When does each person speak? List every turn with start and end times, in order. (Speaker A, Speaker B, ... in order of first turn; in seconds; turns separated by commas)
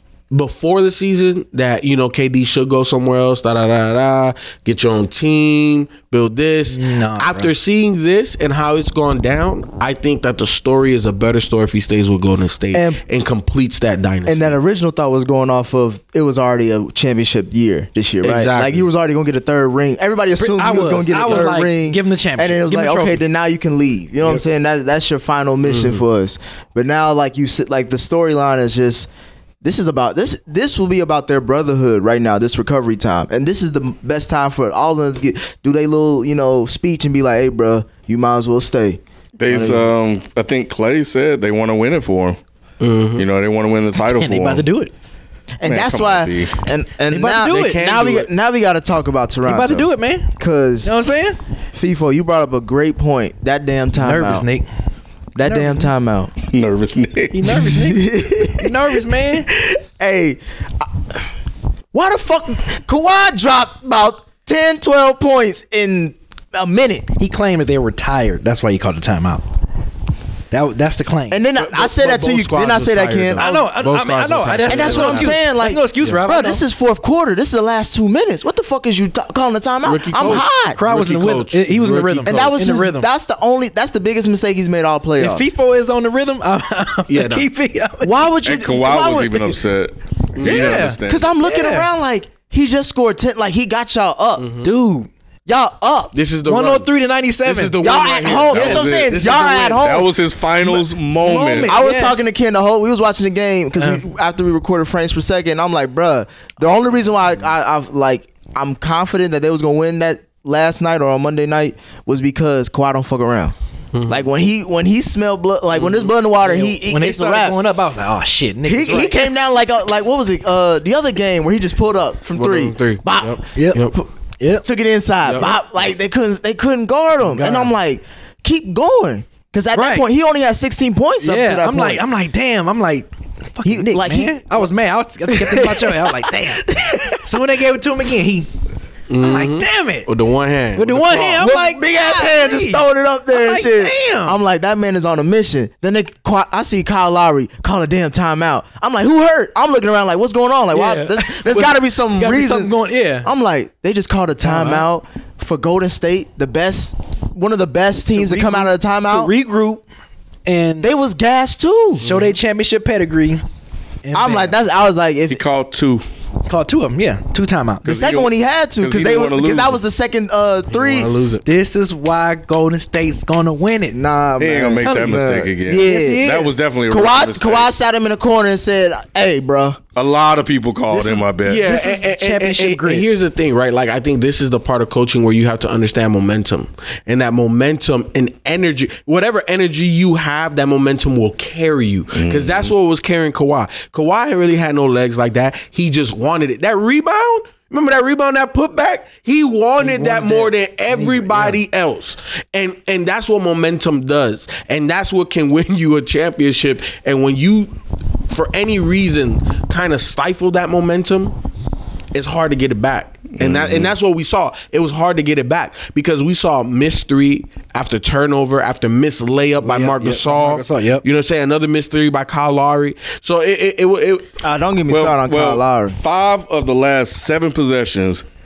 Speaker A: 0.3-14.6, Speaker B: 6.7-7.5, Speaker C: 12.7-13.0, Speaker C: 14.3-29.1, Speaker A: 18.2-18.9, Speaker B: 20.4-23.2, Speaker A: 25.6-26.0, Speaker C: 29.6-39.9, Speaker D: 39.4-42.4, Speaker A: 42.8-43.3, Speaker D: 43.2-44.7, Speaker B: 44.0-44.9, Speaker C: 45.6-50.9, Speaker D: 45.6-46.5, Speaker B: 47.1-47.8, Speaker A: 47.5-48.3, Speaker B: 49.5-51.4, Speaker C: 51.7-54.5, Speaker B: 54.0-54.7, Speaker C: 55.4-56.3, Speaker B: 55.5-55.9, Speaker D: 56.5-57.4, Speaker B: 57.3-59.5, Speaker C: 57.5-58.7, Speaker C: 59.5-60.9, Speaker C: 61.9-67.1, Speaker B: 67.2-69.5, Speaker B: 70.5-71.4, Speaker C: 71.3-73.5, Speaker A: 71.6-75.4, Speaker B: 73.4-76.6, Speaker C: 74.7-80.8, Speaker A: 79.8-82.6, Speaker B: 80.2-83.1, Speaker C: 82.3-85.5, Speaker B: 85.2-88.3, Speaker A: 87.1-87.5, Speaker C: 88.0-89.6, Speaker D: 88.4-91.3, Speaker A: 90.4-90.9, Speaker B: 90.4-91.9, Speaker C: 91.1-94.5, Speaker A: 94.4-94.7, Speaker B: 94.6-95.1, Speaker C: 95.5-96.2, Speaker A: 96.1-96.9, Speaker B: 96.5-97.8, Speaker A: 97.5-99.8, Speaker C: 97.8-100.1, Speaker D: 98.5-99.1, Speaker D: 99.8-101.8, Speaker B: 100.7-102.3, Speaker C: 101.7-113.5, Speaker B: 103.8-104.0, Speaker A: 113.9-114.3, Speaker C: 114.1-117.6, Speaker A: 115.7-116.1, Speaker B: 116.4-119.3, Speaker C: 118.7-123.4, Speaker A: 122.3-124.0, Speaker B: 123.5-123.9, Speaker B: 124.4-124.7, Speaker C: 124.6-132.0, Speaker A: 125.2-125.6, Speaker B: 127.2-127.7, Speaker B: 129.7-130.1, Speaker B: 131.2-138.5, Speaker C: 133.6-134.4, Speaker C: 135.3-137.2, Speaker A: 139.1-141.5, Speaker B: 139.2-140.1, Speaker B: 140.8-144.4, Speaker C: 141.4-159.3, Speaker B: 150.7-153.3, Speaker B: 154.4-154.9, Speaker B: 158.1-159.8, Speaker B: 160.5-160.9, Speaker C: 160.8-162.0, Speaker B: 162.0-163.4, Speaker A: 162.0-162.3, Speaker B: 164.0-164.6, Speaker C: 164.1-165.4, Speaker D: 165.3-166.1, Speaker B: 166.5-167.9, Speaker D: 167.8-169.8, Speaker C: 167.8-171.1, Speaker A: 170.7-171.4, Speaker B: 171.4-174.0, Speaker C: 173.9-179.8, Speaker D: 174.4-177.7, Speaker B: 174.8-175.1, Speaker B: 175.7-176.5, Speaker D: 180.0-181.7, Speaker B: 180.9-183.1, Speaker A: 181.4-207.7, Speaker D: 192.1-192.7, Speaker B: 199.8-201.6, Speaker A: 208.3-211.3, Speaker A: 212.1-224.3, Speaker D: 213.3-213.9, Speaker B: 219.6-221.0, Speaker C: 224.4-226.0, Speaker D: 224.9-228.2